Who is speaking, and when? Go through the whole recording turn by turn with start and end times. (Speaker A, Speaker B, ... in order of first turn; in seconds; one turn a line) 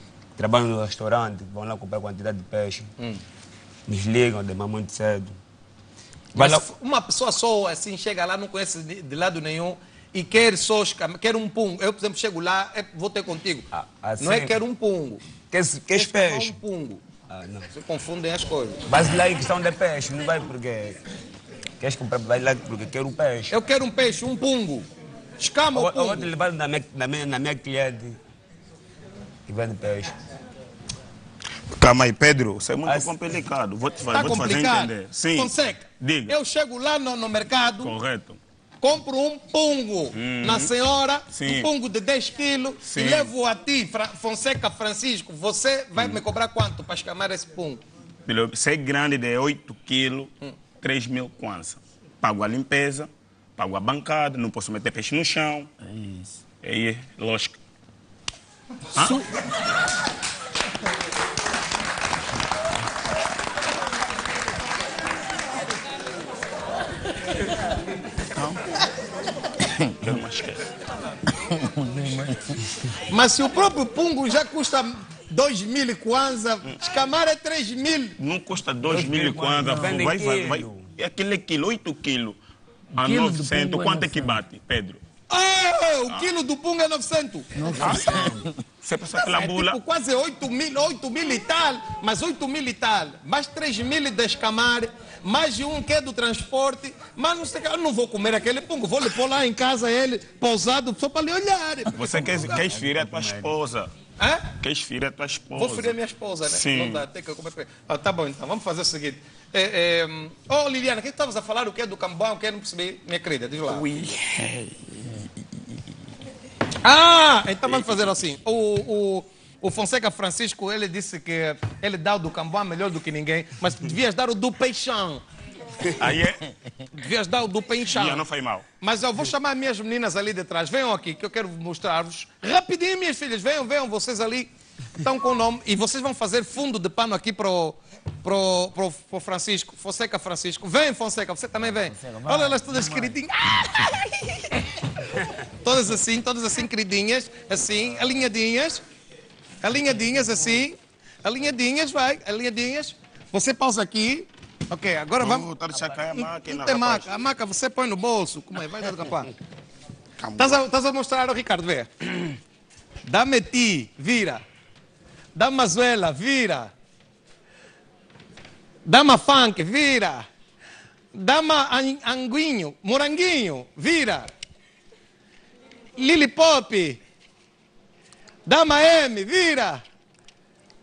Speaker A: 0.4-2.9
Speaker A: 3.9-5.4
Speaker A: 6.3-6.7
Speaker B: 6.3-13.7
Speaker A: 13.7-14.6
Speaker B: 14.2-15.2
Speaker A: 15.5-16.6
Speaker B: 15.9-17.0
Speaker A: 17.3-17.7
Speaker B: 17.7-18.8
Speaker A: 18.9-21.0
Speaker A: 21.8-23.6
Speaker B: 23.5-24.9
Speaker B: 25.4-26.3
Speaker A: 25.7-28.2
Speaker A: 29.5-30.1
Speaker C: 31.7-36.3
Speaker A: 32.9-33.2
Speaker B: 34.1-38.0
Speaker C: 37.8-38.4
Speaker B: 38.8-47.8
Speaker C: 40.1-40.7
Speaker C: 41.3-41.7
Speaker C: 42.8-43.3
Speaker C: 46.0-46.2
Speaker C: 48.3-55.7
Speaker D: 55.8-56.4
Speaker C: 56.6-57.6
Speaker C: 58.9-59.2
Speaker C: 68.3-68.8
Speaker C: 69.8-70.7
Speaker D: 71.4-72.8
Speaker B: 73.1-78.2
Speaker C: 78.2-82.4
Speaker A: 78.9-80.9
Speaker D: 79.6-80.0
Speaker C: 83.0-85.0
Speaker D: 83.0-84.4
Speaker B: 85.3-88.3
Speaker D: 87.5-88.5
Speaker C: 87.8-89.8
Speaker B: 89.2-102.3
Speaker C: 102.0-103.9
Speaker A: 102.0-103.5
Speaker B: 104.2-104.5
Speaker C: 104.6-106.0
Speaker B: 105.5-113.8
Speaker C: 106.5-107.1
Speaker C: 113.7-115.1
Speaker B: 116.8-125.2
Speaker C: 117.7-118.1
Speaker C: 126.0-126.5
Speaker B: 126.9-128.2
Speaker C: 127.9-128.7
Speaker B: 128.8-144.5
Speaker D: 141.6-143.2
Speaker B: 145.6-148.8
Speaker B: 149.6-155.5
Speaker C: 155.2-157.1
Speaker B: 156.1-159.3
Speaker C: 160.2-160.6
Speaker B: 160.4-162.1
Speaker B: 163.1-164.4
Speaker B: 165.3-166.7
Speaker B: 168.9-170.3
Speaker B: 171.2-174.3
Speaker B: 176.0-177.0
Speaker B: 178.5-179.8